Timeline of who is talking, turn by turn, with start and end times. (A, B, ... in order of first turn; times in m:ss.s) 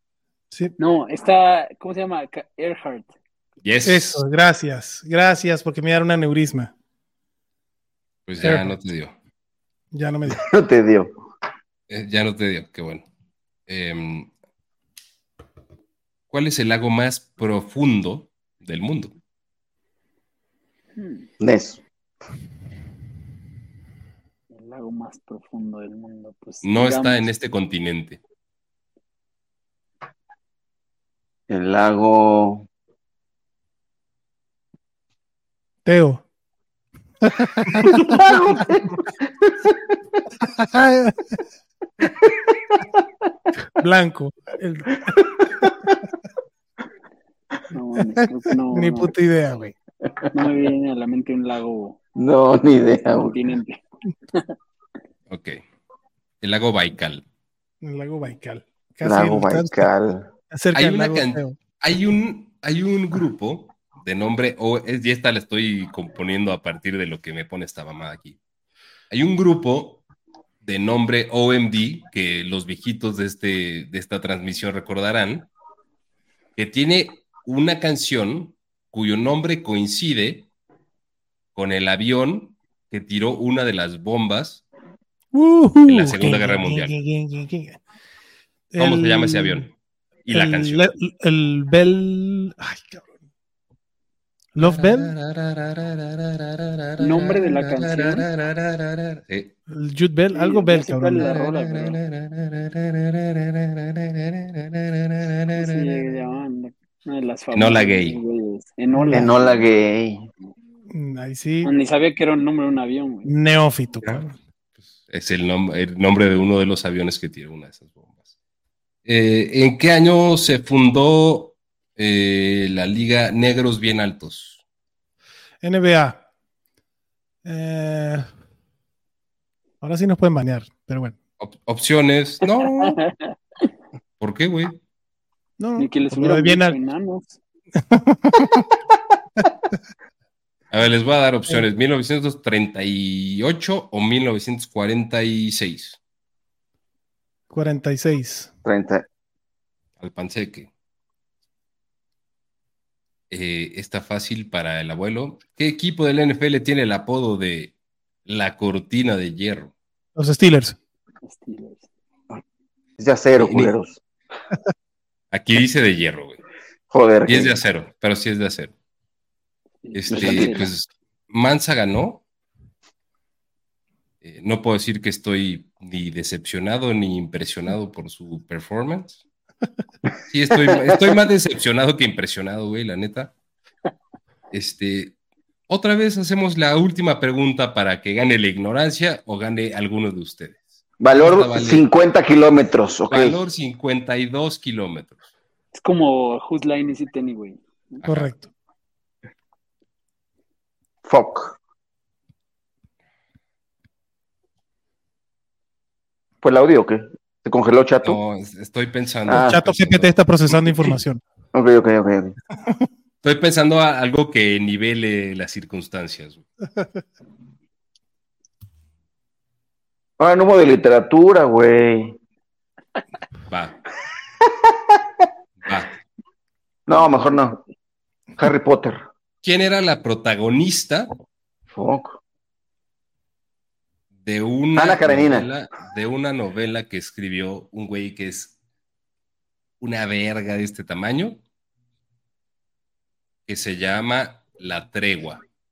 0:00.8-0:03.1 A
0:03.6-0:04.2 B
0:03.8-0:06.7 C
0:08.2-0:09.1 B
0:08.4-0:08.7 C
0:09.9-0:10.4 C
0:10.3-0:11.1 D
0:11.9-0:13.0 B
0:13.7-0:14.3 B
0:16.3-0:19.1 B
0:21.0-0:21.3 A
0:21.4-0:21.8 D
0:24.5-0:27.2 A
0:26.6-0:28.2 B
0:31.5-0:32.7 D
0:35.8-0:36.2 C
0:37.2-0:38.2 C
0:37.8-0:39.5 D
0:40.4-0:41.2 C
0:43.8-0:45.0 C
0:47.7-0:49.1 A
0:48.2-0:49.7 C
0:50.3-0:52.0 A
0:52.2-0:53.4 D
0:53.1-0:53.8 A
0:55.3-0:55.6 B
0:56.4-0:57.2 B
0:57.8-0:59.9 C
0:59.0-1:00.3 D
1:00.5-1:01.6 C
1:00.7-1:08.4 B
1:09.1-1:10.0 B
1:10.6-1:15.5 B
1:16.6-1:20.5 B
1:21.5-1:24.6 B
1:25.3-1:27.8 C
1:25.9-1:26.9 B
1:28.7-1:29.7 C
1:28.8-1:29.7 B
1:30.2-1:31.0 B
1:30.3-1:33.1 C
1:34.6-1:35.2 C
1:34.6-1:39.5 B
1:37.0-1:38.3 A
1:39.7-1:41.4 C
1:40.3-1:42.0 A
1:41.4-1:46.1 B
1:45.5-1:49.7 A
1:47.5-1:48.2 B
1:48.9-1:49.3 C
1:49.1-1:50.2 D
1:50.9-1:51.7 C
1:51.6-1:53.3 A
1:53.2-1:54.3 C
1:55.1-1:58.1 B
1:59.0-2:04.6 B
2:05.6-2:06.2 C
2:07.4-2:08.3 C
2:09.8-2:11.2 C
2:11.4-2:13.0 B
2:12.6-2:13.3 A
2:14.2-2:14.8 B
2:15.6-2:16.8 C
2:15.8-2:17.4 A
2:17.9-2:18.6 C
2:20.7-2:26.0 B
2:27.5-2:28.5 C
2:28.6-2:29.0 D
2:30.0-2:30.7 B
2:33.3-2:37.7 B
2:38.2-2:39.7 B
2:40.2-2:40.8 C
2:41.2-2:41.9 A
2:43.0-2:44.0 D
2:43.4-2:43.7 B
2:45.3-2:46.4 B
2:46.9-2:47.6 D
2:47.2-2:48.7 B
2:49.8-2:50.7 A
2:49.9-2:52.2 B
2:50.1-2:50.7 D
2:54.2-2:59.2 B
3:00.3-3:03.3 B
3:00.7-3:00.9 D
3:04.5-3:05.1 B
3:05.7-3:10.6 B
3:11.0-3:13.4 D
3:11.2-3:11.8 B
3:13.1-3:15.2 B
3:15.7-3:18.0 A
3:18.0-3:18.3 B
3:18.0-3:18.5 C
3:21.0-3:21.6 D
3:26.4-3:28.2 D
3:28.0-3:30.2 B
3:29.3-3:29.6 D
3:29.4-3:31.2 C
3:31.5-3:32.3 D
3:33.2-3:36.4 B
3:40.2-3:42.2 D
3:43.5-3:43.8 B
3:45.6-3:45.9 B
3:46.9-3:47.6 D
3:48.4-3:49.0 D
3:49.4-3:51.1 B
3:51.7-3:52.2 D
3:54.2-3:58.5 B
3:54.8-3:55.5 D
3:59.8-4:01.4 B
4:03.5-4:05.4 B